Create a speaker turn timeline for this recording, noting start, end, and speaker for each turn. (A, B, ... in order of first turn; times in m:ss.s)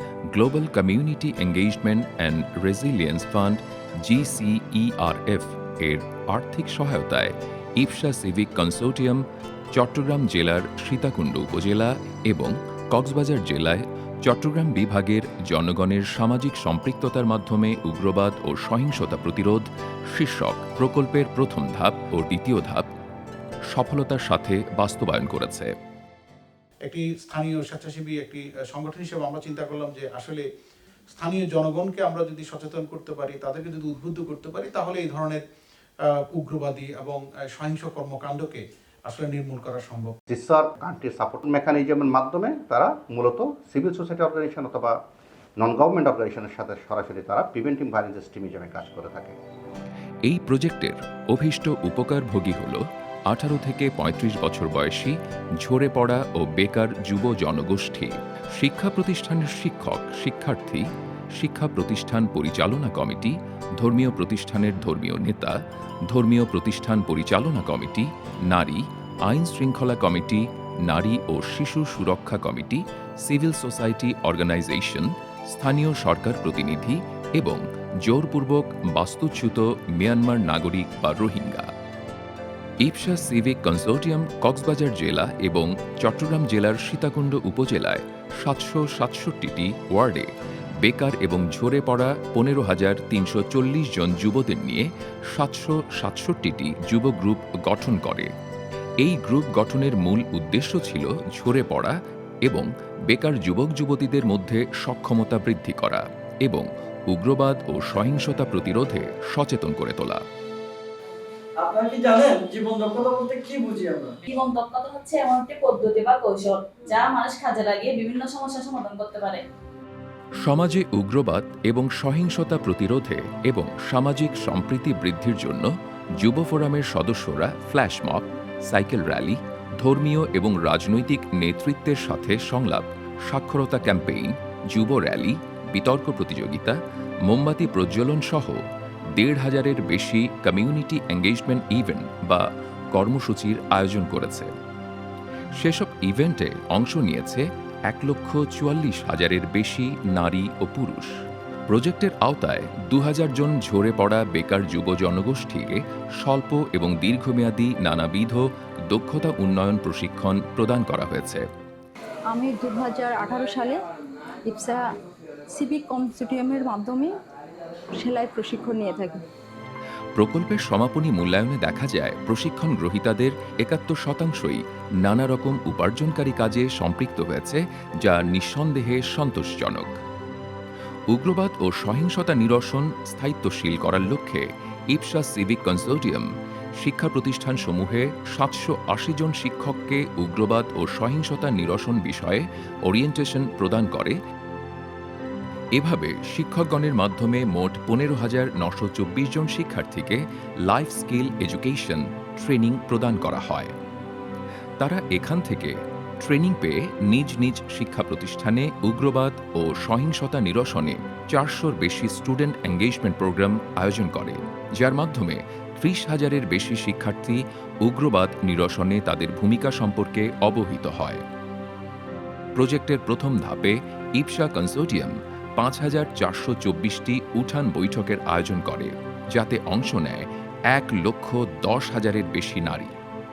0:00.3-0:09.2 A
0:09.7-0:22.9 A
0:23.7-0:25.7 A
0:26.9-0:30.4 B
0:31.2-0:35.4 B
0:36.4-0:40.1 B
0:40.3-0:44.9 C
0:45.6-0:49.4 C
0:50.2-1:00.8 A
1:01.4-1:05.5 A
1:06.1-1:21.7 A
1:22.8-1:30.3 A
1:30.8-1:38.3 A
1:39.0-1:41.9 A
1:42.5-1:50.2 A
1:51.6-1:54.2 D
1:54.4-1:59.4 E
2:00.4-2:16.8 A
2:17.3-2:18.6 A
2:19.2-2:24.5 A
2:25.6-2:31.1 A
2:31.7-2:41.4 A
2:42.3-2:43.8 F
2:44.4-2:44.9 F
2:45.5-2:47.2 F
2:48.0-2:49.2 F
2:50.2-2:59.9 A
3:01.1-3:06.3 A
3:06.8-3:14.2 A
3:15.8-3:23.7 A
3:24.8-3:41.2 A
3:42.6-3:53.0 A